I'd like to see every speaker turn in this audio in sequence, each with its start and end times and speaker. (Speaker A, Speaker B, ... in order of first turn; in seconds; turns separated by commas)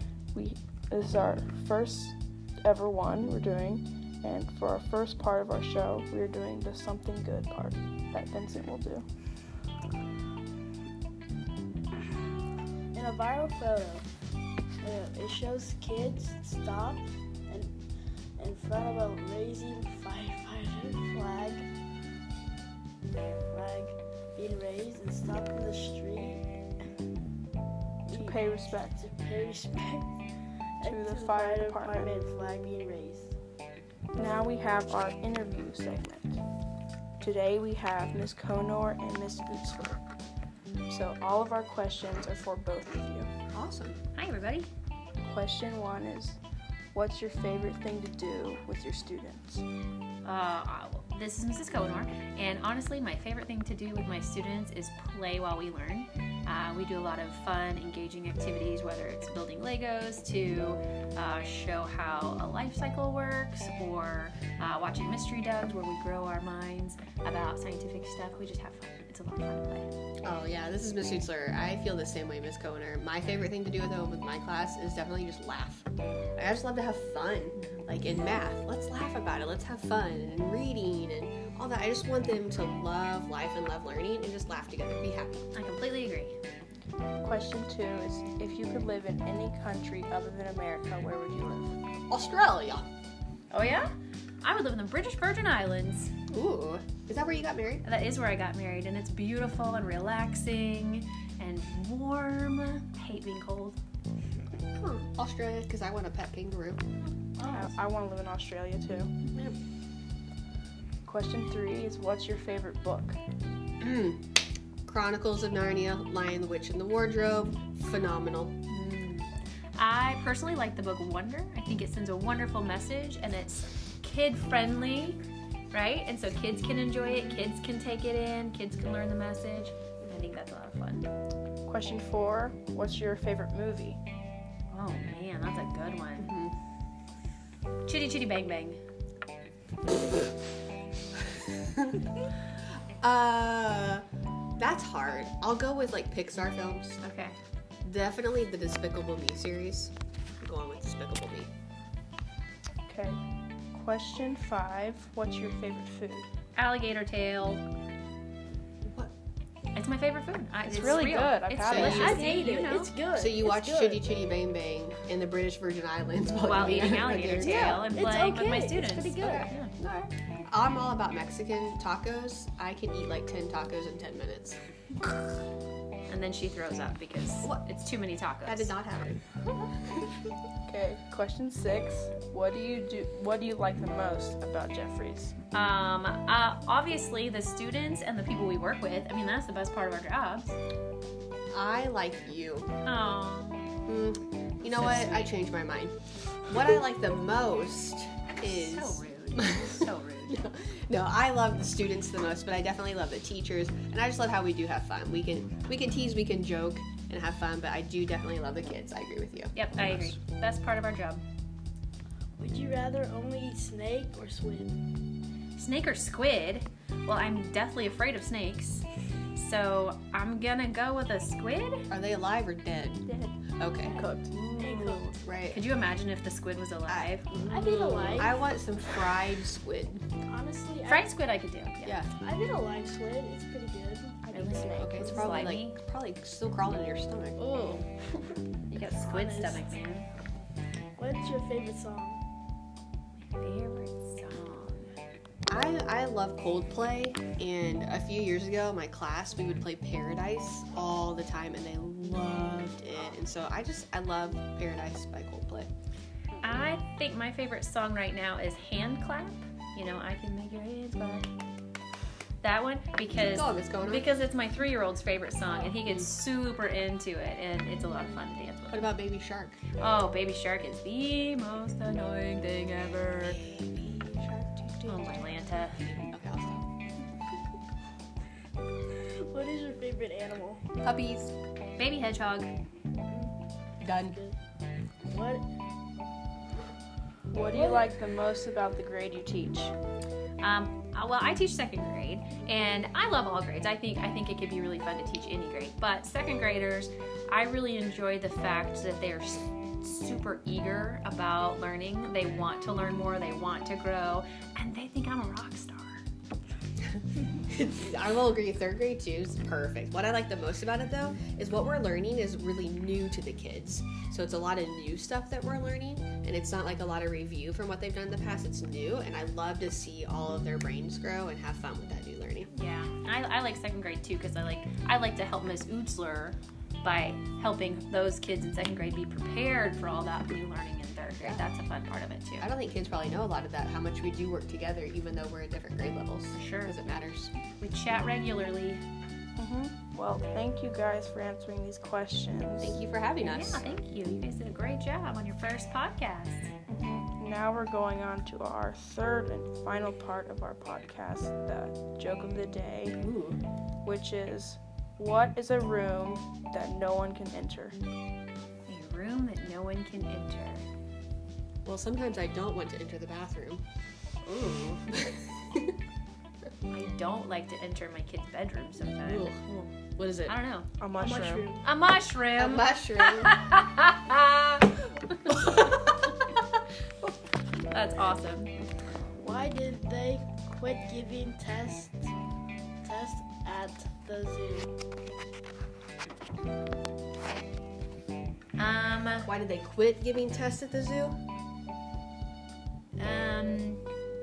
Speaker A: 0.3-9.0, Speaker B: 12.9-14.1, Speaker B: 14.8-17.7, Speaker B: 18.4-21.6, Speaker B: 23.5-26.5, Speaker B: 28.1-30.1, Speaker A: 28.1-28.9, Speaker B: 30.8-33.4, Speaker A: 30.8-32.1, Speaker A: 34.2-36.4, Speaker A: 37.2-40.0, Speaker A: 40.9-43.3, Speaker C: 43.5-44.0, Speaker D: 44.1-44.7, Speaker A: 45.2-46.4, Speaker A: 46.9-49.6, Speaker D: 50.2-69.9, Speaker C: 70.2-75.8, Speaker C: 76.4-85.5, Speaker D: 77.5-78.0, Speaker D: 85.5-86.3, Speaker A: 87.2-91.8, Speaker C: 92.1-92.8, Speaker D: 93.5-93.9, Speaker D: 94.4-96.1, Speaker C: 96.3-97.8, Speaker D: 97.8-103.8, Speaker C: 104.8-106.8, Speaker B: 107.4-107.7, Speaker A: 107.5-109.1, Speaker A: 111.0-113.2, Speaker C: 113.8-114.2, Speaker C: 114.8-118.5, Speaker D: 118.7-125.2, Speaker D: 125.7-131.1, Speaker A: 131.7-134.0, Speaker D: 134.7-136.3, Speaker C: 136.2-136.5, Speaker D: 137.8-138.8, Speaker C: 141.5-142.0, Speaker C: 143.0-144.0, Speaker C: 144.6-147.0, Speaker D: 147.0-147.4, Speaker C: 147.8-151.5, Speaker A: 152.9-153.2, Speaker A: 153.7-156.3, Speaker D: 156.6-157.6, Speaker C: 158.8-159.1, Speaker D: 159.7-162.9, Speaker A: 160.6-162.3, Speaker C: 161.6-162.1, Speaker B: 161.9-164.1, Speaker C: 163.1-167.9, Speaker D: 166.4-169.7, Speaker B: 167.3-169.5, Speaker C: 169.2-174.6, Speaker D: 176.1-178.7, Speaker C: 178.4-179.2, Speaker A: 180.7-185.3, Speaker D: 185.5-190.6, Speaker C: 191.5-192.7, Speaker D: 192.8-193.7, Speaker C: 193.8-195.9, Speaker D: 194.6-195.3, Speaker C: 196.5-210.2, Speaker D: 198.4-200.4, Speaker D: 209.5-211.2, Speaker B: 212.4-214.7, Speaker D: 215.6-221.9, Speaker C: 221.9-223.0, Speaker A: 223.1-224.3, Speaker C: 223.6-224.4, Speaker D: 224.3-227.4, Speaker B: 224.6-225.1, Speaker C: 225.1-225.6, Speaker C: 226.9-230.1, Speaker B: 227.5-228.5, Speaker B: 230.2-231.1, Speaker D: 230.9-232.0, Speaker C: 231.8-232.1, Speaker B: 232.2-235.4, Speaker A: 234.2-235.4, Speaker D: 234.3-235.8, Speaker C: 234.7-237.4, Speaker B: 237.5-237.8, Speaker D: 238.7-240.1, Speaker B: 238.9-239.8, Speaker B: 241.0-242.2, Speaker D: 243.2-244.9, Speaker C: 245.5-255.7, Speaker D: 256.4-261.3, Speaker D: 262.4-268.9, Speaker C: 263.1-264.1, Speaker C: 265.8-266.1, Speaker C: 268.7-269.6, Speaker D: 269.8-273.4, Speaker C: 273.2-276.6, Speaker D: 274.9-275.8, Speaker B: 279.0-280.6, Speaker C: 280.8-281.3, Speaker D: 281.8-282.5, Speaker B: 283.1-283.4, Speaker C: 283.8-284.2, Speaker B: 284.0-284.4, Speaker B: 285.1-285.4, Speaker A: 287.3-289.7, Speaker B: 287.5-287.9, Speaker D: 290.4-306.0, Speaker C: 307.5-322.5, Speaker D: 322.5-332.5, Speaker C: 332.4-337.3, Speaker D: 336.3-336.8, Speaker D: 337.6-338.8, Speaker A: 339.4-342.8, Speaker C: 342.6-343.6, Speaker D: 343.2-346.5, Speaker A: 346.7-353.0, Speaker C: 353.0-353.4, Speaker A: 353.8-357.8, Speaker D: 358.7-360.6, Speaker C: 361.6-363.6, Speaker C: 364.2-365.7, Speaker D: 366.7-369.3, Speaker C: 369.0-370.4, Speaker D: 370.2-370.7, Speaker A: 370.8-371.5, Speaker B: 371.0-371.6, Speaker D: 371.6-375.9, Speaker C: 372.3-373.4, Speaker C: 375.3-375.7, Speaker D: 377.7-378.5, Speaker B: 379.1-382.1, Speaker B: 382.8-384.7, Speaker D: 388.6-389.3, Speaker C: 389.2-391.2, Speaker D: 393.0-393.8